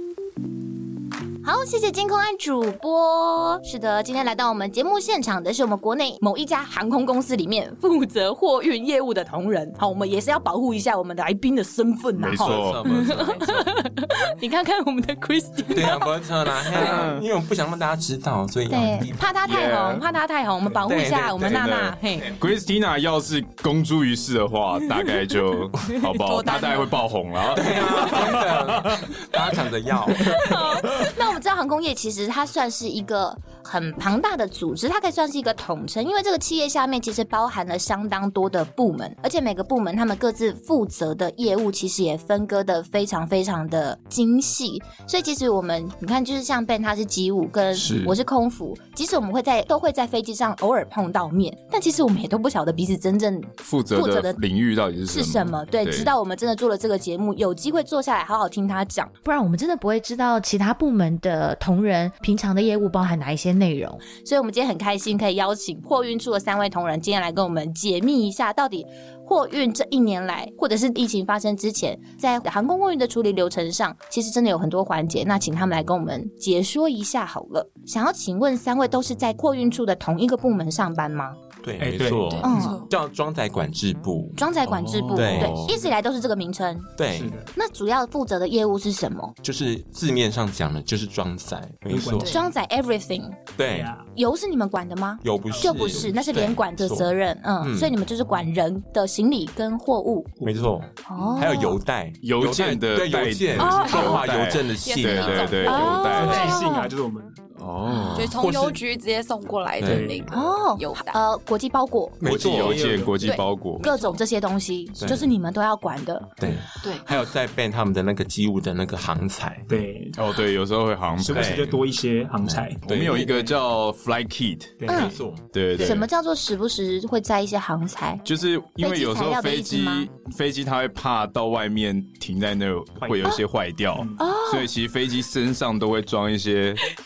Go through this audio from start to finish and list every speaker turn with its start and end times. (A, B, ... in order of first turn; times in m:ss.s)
0:01.4-0:17.1 A
0:12.2-0:12.9 B
0:12.3-0:13.8 C
0:15.7-0:19.2 C
0:16.7-0:17.2 B
0:18.7-0:22.3 A
0:19.4-0:20.1 B
0:20.8-0:21.6 C
0:21.4-0:29.1 B
0:26.2-0:26.9 D
0:27.5-0:30.6 C
0:30.2-0:54.4 A
0:47.7-0:48.2 B
0:53.6-0:56.1 B
0:55.1-0:59.2 A
0:59.2-1:04.0 E
1:04.1-1:21.4 A
1:21.6-1:24.4 C
1:21.8-1:22.8 F
1:22.4-1:22.9 D
1:22.4-1:22.8 A
1:24.4-1:26.9 A
1:24.7-1:25.6 B
1:25.1-1:25.8 C
1:25.4-1:25.8 F
1:27.0-1:27.4 C
1:27.1-1:27.5 F
1:27.6-1:29.3 A
1:29.4-1:32.3 C
1:31.9-1:32.5 F
1:32.2-1:32.4 D
1:32.3-1:33.4 A
1:33.6-1:33.9 C
1:33.7-1:34.1 F
1:34.1-1:40.3 A
1:35.2-1:37.9 C
1:35.5-1:36.1 F
1:40.4-1:40.7 F
1:40.4-1:46.6 C
1:41.1-1:41.8 A
1:42.2-1:46.5 B
1:43.6-1:44.2 A
1:43.6-1:44.2 D
1:44.8-1:46.6 D
1:45.6-1:46.9 A
1:45.8-1:47.4 F
1:47.6-1:48.4 B
1:47.9-1:48.2 A
1:48.1-1:51.2 D
1:48.4-1:48.8 C
1:49.8-1:50.1 C
1:49.8-1:50.4 F
1:50.3-1:52.2 A
1:52.2-1:53.0 C
1:52.2-1:53.4 F
1:52.2-1:53.8 B
1:53.2-1:54.2 D
1:53.8-1:56.4 A
1:55.0-1:55.3 C
1:56.4-1:59.7 C
1:56.8-1:57.1 D
1:59.7-2:00.2 F
2:00.2-2:01.7 B
2:01.2-2:03.5 F
2:01.3-2:01.8 C
2:02.4-2:03.3 C
2:02.8-2:04.9 B
2:04.8-2:05.2 F
2:04.9-2:05.2 A
2:04.9-2:06.0 C
2:05.5-2:06.1 B
2:05.8-2:08.2 A
2:08.2-2:16.8 B
2:08.8-2:10.1 A
2:13.0-2:13.4 F
2:13.9-2:14.2 F
2:14.2-2:14.7 A